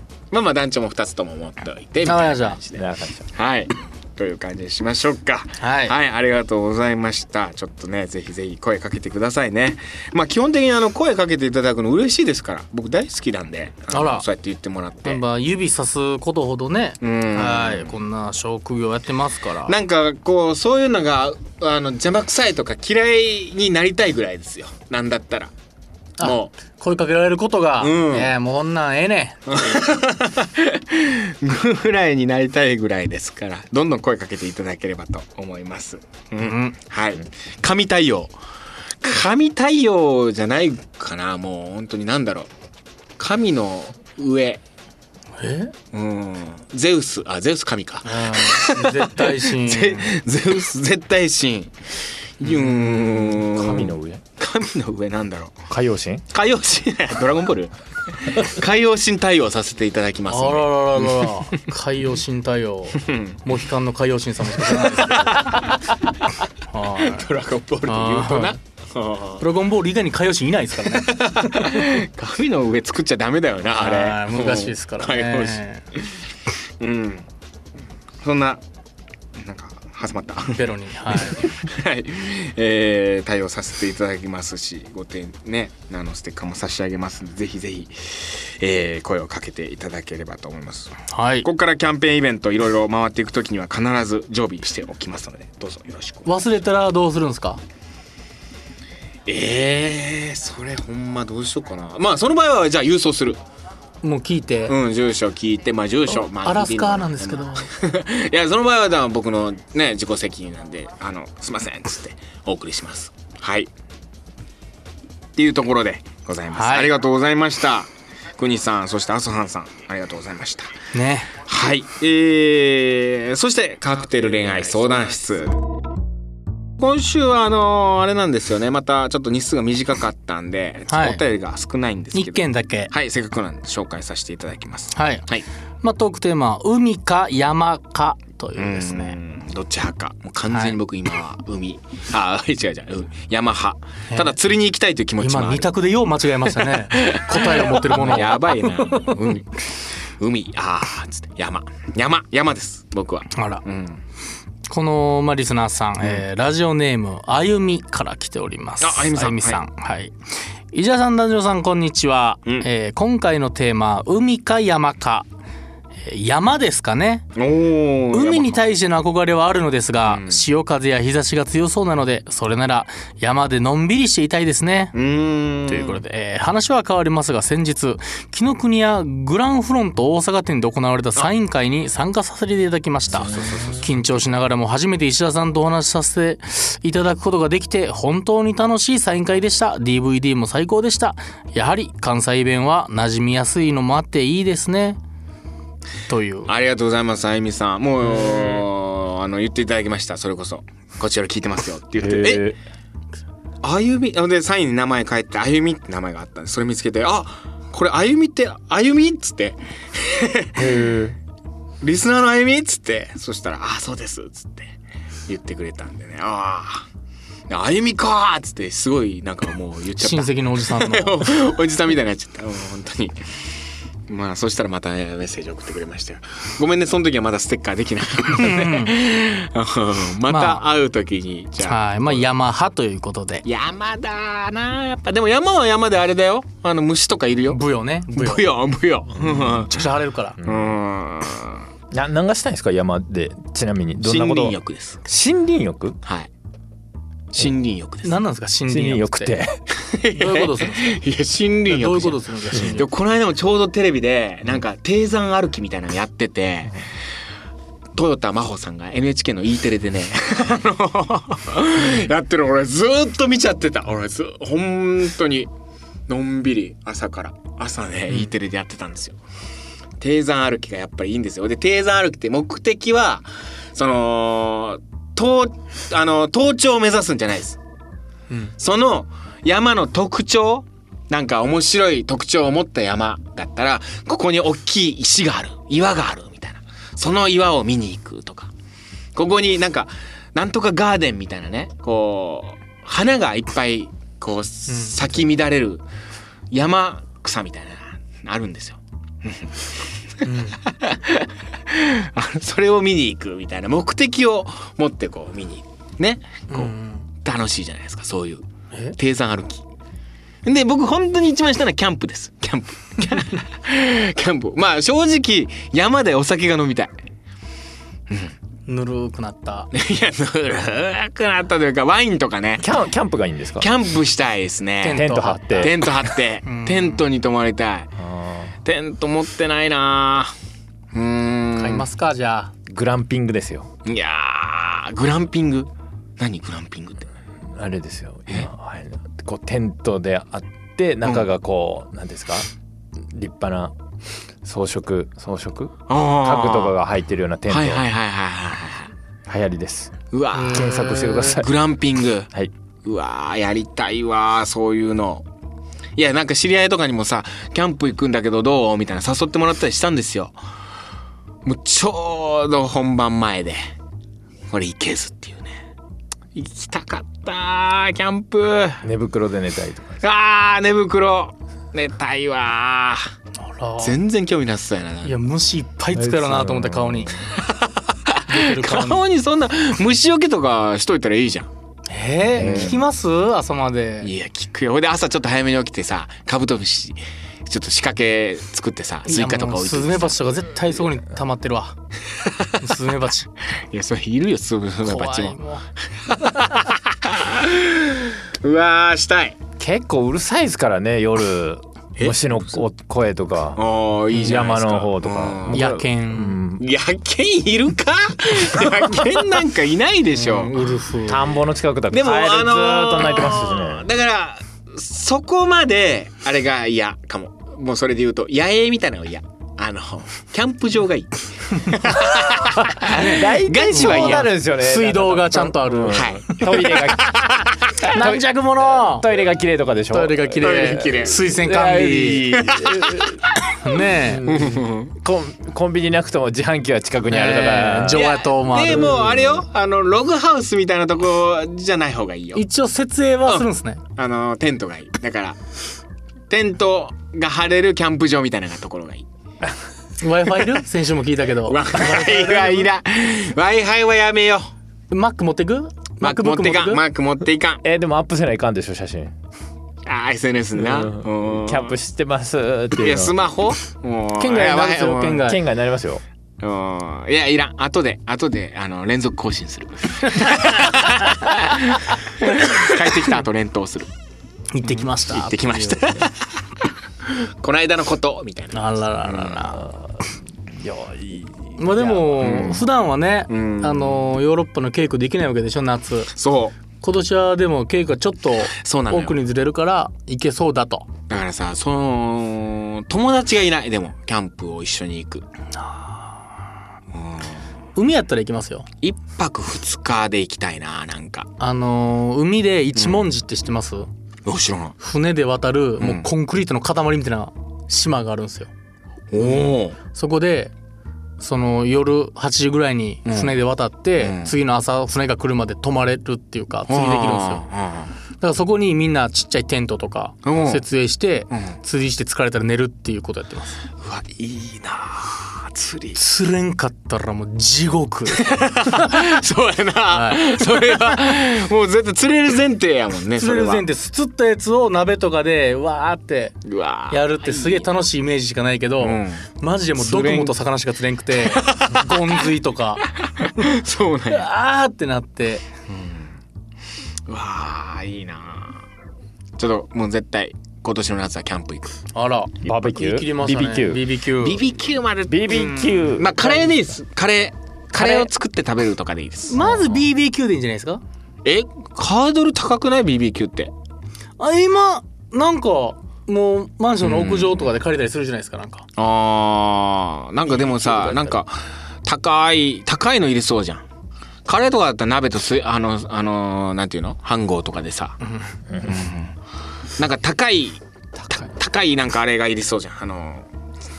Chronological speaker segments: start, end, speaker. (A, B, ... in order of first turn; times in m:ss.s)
0:00.3-0:15.2 A
0:02.0-0:02.6 B
0:02.8-0:03.3 C
0:05.6-0:06.0 B
0:13.9-0:14.3 B
0:15.0-0:19.8 B
0:17.0-0:18.0 A
0:19.7-0:25.5 A
0:26.2-0:26.5 A
0:26.2-0:29.6 B
0:27.8-0:28.3 A
0:29.5-0:38.3 A
0:36.4-0:36.8 B
0:39.0-0:42.5 A
0:43.2-0:44.6 A
0:45.4-0:45.7 B
0:45.9-0:51.7 A
0:48.1-0:50.1 B
0:52.4-0:55.6 A
0:52.4-0:53.9 B
0:53.6-0:54.2 C
0:55.7-0:56.2 C
0:56.3-1:01.6 A
1:00.3-1:05.7 B
1:03.0-1:03.4 A
1:04.6-1:05.9 A
1:06.7-1:07.3 B
1:06.9-1:09.4 A
1:07.9-1:08.6 B
1:09.4-1:11.9 B
1:11.0-1:16.1 A
1:13.8-1:15.8 B
1:16.8-1:17.3 A
1:18.2-1:18.6 A
1:19.4-1:36.3 A
1:20.6-1:21.5 B
1:31.1-1:31.5 B
1:36.3-1:37.6 B
1:39.3-1:43.4 A
1:44.0-1:44.8 B
1:44.7-1:53.7 A
1:46.1-1:47.7 B
1:55.4-2:00.7 A
1:56.5-1:56.9 B
2:00.9-2:01.3 B
2:01.4-2:05.6 A
2:06.8-2:15.5 A
2:10.9-2:11.2 B
2:12.1-2:12.9 B
2:15.0-2:15.2 B
2:15.8-2:19.2 B
2:18.6-2:25.7 A
2:20.5-2:20.8 B
2:25.2-2:29.1 B
2:26.9-2:34.0 A
2:33.4-2:33.6 B
2:34.7-2:40.2 B
2:38.8-2:39.6 A
2:40.7-2:45.3 B
2:46.0-2:47.3 B
2:47.4-2:48.6 A
2:48.1-2:54.9 B
2:50.0-2:50.4 A
2:54.9-2:56.0 A
2:55.7-3:15.0 B
3:03.1-3:04.3 A
3:03.2-3:03.8 C
3:16.1-3:16.5 B
3:16.5-3:22.5 A
3:18.1-3:18.6 B
3:22.0-3:22.6 C
3:23.6-3:30.6 A
3:30.6-3:31.2 C
3:31.8-3:34.7 A
3:35.3-3:36.9 A
3:37.5-3:43.2 A
3:40.0-3:41.5 B
3:44.1-3:52.2 A
3:48.4-3:48.9 B
3:50.3-3:50.7 B
3:51.6-3:53.4 B
3:53.4-3:57.6 A
3:57.5-3:58.5 B
3:58.1-3:59.7 A
3:59.2-4:00.4 B
4:00.4-4:00.8 C
4:00.4-4:01.6 A
4:01.9-4:06.0 C
4:04.0-4:05.0 A
4:06.0-4:06.3 A
4:07.3-4:08.2 A
4:08.0-4:09.4 B
4:08.7-4:09.6 C
4:09.8-4:16.8 A
4:10.1-4:11.0 B
4:11.7-4:12.9 B
4:18.0-4:25.5 A
4:26.1-4:29.2 A
4:30.0-4:37.6 A
4:38.6-4:48.5 A
4:49.2-4:55.8 A
4:54.7-4:55.0 B
4:56.5-4:59.5 A
5:00.2-5:08.4 A
5:00.2-5:00.6 B
5:06.5-5:07.0 B
5:09.0-5:09.6 A
5:10.4-5:16.9 A
5:18.7-5:19.7 B
5:19.7-5:22.7 A
5:22.6-5:23.7 C
5:23.6-5:27.9 A
5:24.8-5:25.8 B
5:24.9-5:25.8 C
5:26.4-5:27.0 B
5:28.0-5:28.5 C
5:28.6-5:30.3 A
5:30.9-5:31.9 A
5:31.6-5:32.5 B
5:32.7-5:33.7 C
5:33.8-5:37.1 A
5:37.5-5:42.5 C
5:43.1-5:43.8 C
5:44.4-5:47.8 C
5:45.9-5:46.8 A
5:47.5-5:48.9 A
5:49.3-5:50.0 C
5:50.1-5:52.3 A
5:50.4-5:51.4 B
5:50.5-5:51.5 C
5:52.8-5:55.3 A
5:56.0-6:00.4 A
6:01.4-6:03.6 A
6:04.5-6:05.6 A
6:06.3-6:08.8 A
6:08.8-6:10.0 C
6:10.0-6:13.1 A
6:13.4-6:14.0 B
6:13.8-6:15.2 A
6:15.0-6:17.2 B
6:16.0-6:17.1 C
6:17.3-6:21.5 A
6:18.3-6:19.0 B
6:21.9-6:24.1 B
6:22.4-6:22.8 C
6:22.4-6:22.8 A
6:24.0-6:30.2 A
6:29.1-6:31.8 B
6:32.2-6:32.6 A
6:32.6-6:33.3 B
6:33.7-6:35.4 A
6:34.8-6:35.6 B
6:36.0-6:39.4 A
6:39.6-6:46.6 C
6:43.6-6:45.6 A
6:45.5-6:46.4 B
6:46.6-6:50.7 A
6:50.2-6:51.3 B
6:51.1-6:53.9 C
6:51.9-7:04.3 A
7:02.8-7:07.2 C
7:02.9-7:06.9 B
7:05.9-7:07.9 A
7:07.9-7:09.1 B
7:07.9-7:13.2 C
7:09.9-7:12.4 B
7:10.4-7:11.2 A
7:12.4-7:12.8 A
7:13.6-7:14.3 B
7:13.8-7:18.1 C
7:14.2-7:14.9 A
7:17.1-7:19.1 B
7:17.9-7:22.4 A
7:18.7-7:19.4 C
7:22.4-7:23.8 B
7:23.3-7:25.4 A
7:26.3-7:29.1 A
7:30.0-7:32.7 B
7:31.5-7:34.5 A
7:34.9-7:36.8 B
7:36.0-7:37.6 A
7:37.6-7:39.1 C
7:39.9-7:41.8 A
7:40.6-7:43.1 C
7:42.8-7:45.2 A
7:44.2-7:45.4 B
7:45.2-7:46.0 C
7:46.4-7:53.9 A
7:54.5-7:55.9 B
7:54.6-7:56.3 A
7:57.1-7:59.6 A
7:58.5-7:59.6 B
7:59.5-8:02.5 C
8:01.6-8:06.1 B
8:02.2-8:02.6 A
8:03.3-8:04.1 A
8:06.1-8:06.6 A
8:06.8-8:10.9 B
8:08.5-8:09.2 A
8:11.1-8:15.2 A
8:15.6-8:16.1 B
8:16.9-8:17.4 A
8:17.8-8:18.7 B
8:18.8-8:21.3 A
8:21.4-8:23.9 B
8:22.8-8:23.1 A
8:24.3-8:24.8 A
8:24.8-8:28.5 B
8:25.8-8:26.1 A
8:29.1-8:29.8 A
8:29.9-8:30.5 B
8:31.2-8:37.4 B
8:33.1-8:33.4 A
8:34.0-8:34.3 A
8:36.7-8:37.9 A
8:38.2-8:43.6 B
8:40.2-8:40.6 A
8:43.8-8:46.0 A
8:46.0-8:49.2 B
8:48.2-8:53.7 A
8:49.9-8:50.9 B
8:53.2-9:02.8 B
8:56.5-8:57.7 A
8:58.8-9:00.4 A
9:01.2-9:02.2 A
9:03.0-9:04.3 A
9:04.1-9:05.4 B
9:05.7-9:06.1 A
9:07.1-9:08.6 A
9:09.4-9:11.7 A
9:11.9-9:14.4 B
9:12.4-9:13.8 C
9:14.2-9:19.4 A
9:15.1-9:16.7 C
9:17.8-9:18.0 B
9:19.3-9:20.8 B
9:19.4-9:19.9 C
9:21.2-9:23.5 A
9:24.2-9:28.6 B
9:26.8-9:27.5 A
9:28.8-9:33.6 A
9:30.5-9:31.1 B
9:34.3-9:38.0 A
9:38.5-9:38.9 C
9:38.6-9:39.1 A
9:39.8-9:43.3 A